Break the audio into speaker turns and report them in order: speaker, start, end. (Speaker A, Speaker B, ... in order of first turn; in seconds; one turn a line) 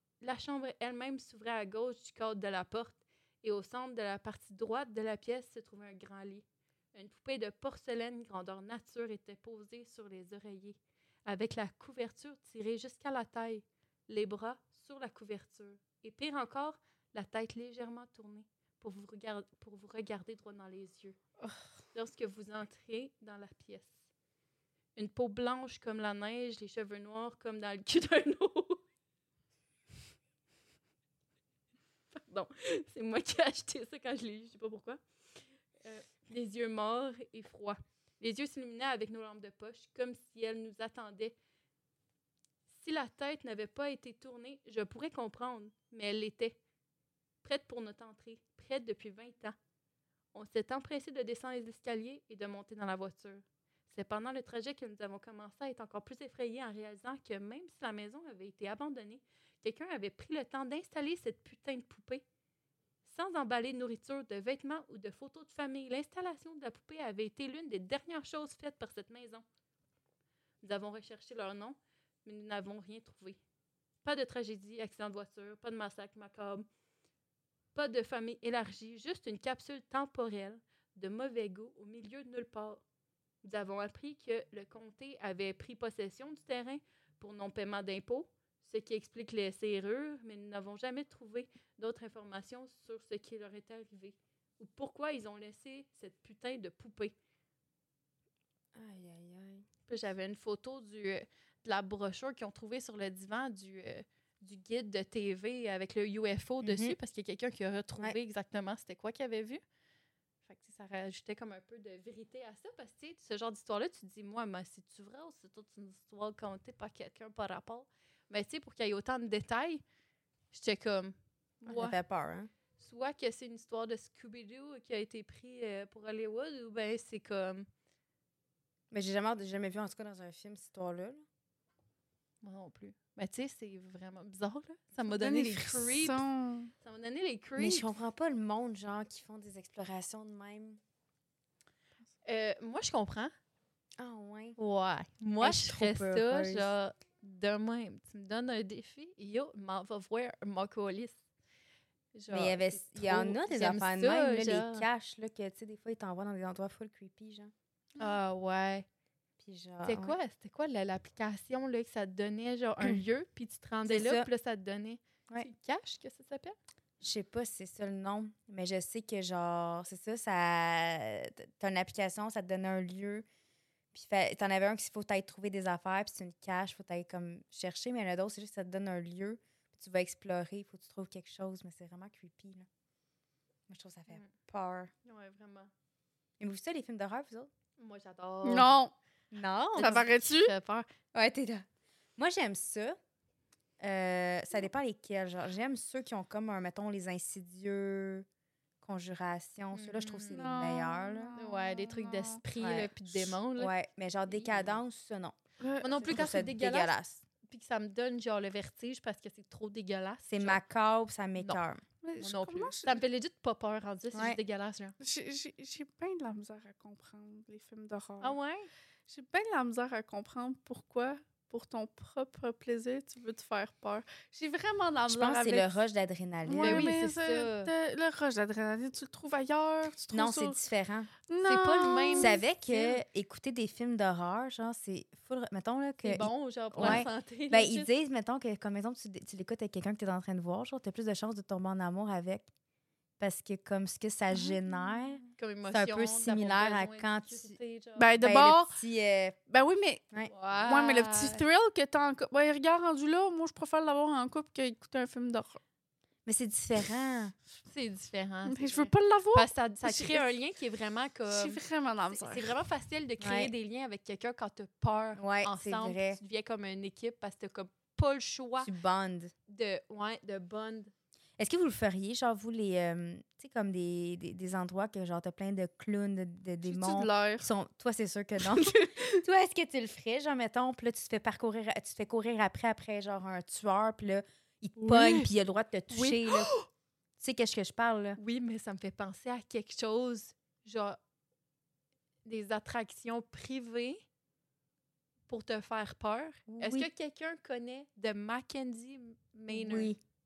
Speaker A: 0.2-21.2
Speaker A: 21.9-23.9
Speaker A: 24.9-28.8
Speaker A: 32.1-35.0
Speaker A: 35.8-41.3
Speaker A: 42.8-46.6
Speaker A: 47.4-49.5
Speaker A: 50.3-62.2
Speaker A: 63.0-69.4
Speaker A: 70.6-73.4
Speaker A: 74.0-76.7
Speaker A: 77.7-82.8
Speaker A: 83.4-97.1
Speaker B: 98.7-99.7
Speaker A: 99.9-109.6
Speaker B: 106.6-107.0
Speaker A: 110.5-119.8
Speaker A: 120.5-122.0
Speaker B: 121.7-122.5
Speaker A: 122.8-127.7
Speaker B: 128.9-131.2
Speaker A: 132.4-136.2
Speaker C: 135.0-136.7
Speaker A: 136.8-137.9
Speaker B: 137.6-140.8
Speaker A: 142.2-143.3
Speaker B: 144.0-144.6
Speaker A: 144.6-151.2
Speaker B: 145.4-146.7
Speaker A: 152.1-154.8
Speaker B: 152.3-157.5
Speaker A: 158.0-158.8
Speaker B: 159.4-160.1
Speaker A: 159.8-166.5
Speaker B: 163.8-164.3
Speaker B: 167.0-173.2
Speaker B: 173.9-182.7
Speaker B: 183.7-184.9
Speaker A: 185.0-185.7
Speaker B: 186.4-187.5
Speaker A: 187.8-188.7
Speaker C: 188.4-188.9
Speaker B: 189.3-190.0
Speaker A: 189.8-190.9
Speaker C: 189.8-190.5
Speaker B: 191.1-191.6
Speaker B: 192.2-193.0
Speaker B: 193.8-198.2
Speaker B: 198.8-201.3
Speaker A: 199.7-200.4
Speaker C: 200.3-202.4
Speaker A: 201.4-203.7
Speaker B: 202.6-205.4
Speaker A: 204.3-204.8
Speaker C: 205.6-206.2
Speaker A: 205.8-210.6
Speaker B: 206.0-207.2
Speaker B: 210.3-211.8
Speaker C: 212.0-212.9
Speaker A: 212.2-214.9
Speaker C: 215.0-218.3
Speaker A: 218.2-218.7
Speaker C: 219.1-225.7
Speaker B: 225.1-226.9
Speaker C: 226.4-230.6
Speaker A: 226.6-227.7
Speaker B: 230.1-231.1
Speaker C: 231.3-232.4
Speaker A: 231.4-233.0
Speaker B: 232.2-242.5
Speaker A: 236.0-237.9
Speaker C: 236.7-237.0
Speaker B: 243.2-247.6
Speaker A: 245.3-248.2
Speaker C: 248.0-248.7
Speaker B: 248.2-249.3
Speaker C: 249.5-250.0
Speaker A: 250.3-251.4
Speaker C: 250.7-255.6
Speaker B: 256.2-257.3
Speaker A: 257.6-268.7
Speaker C: 258.5-260.2
Speaker C: 261.3-262.5
Speaker B: 263.2-263.5
Speaker B: 265.2-266.2
Speaker B: 268.6-269.3
Speaker A: 269.5-270.9
Speaker B: 271.4-286.5
Speaker C: 276.6-277.5
Speaker A: 284.8-285.3
Speaker A: 285.9-286.2
Speaker B: 287.2-288.2
Speaker A: 288.2-291.0
Speaker A: 292.2-294.0
Speaker A: 295.3-299.9
Speaker B: 296.5-296.9
Speaker B: 299.5-300.0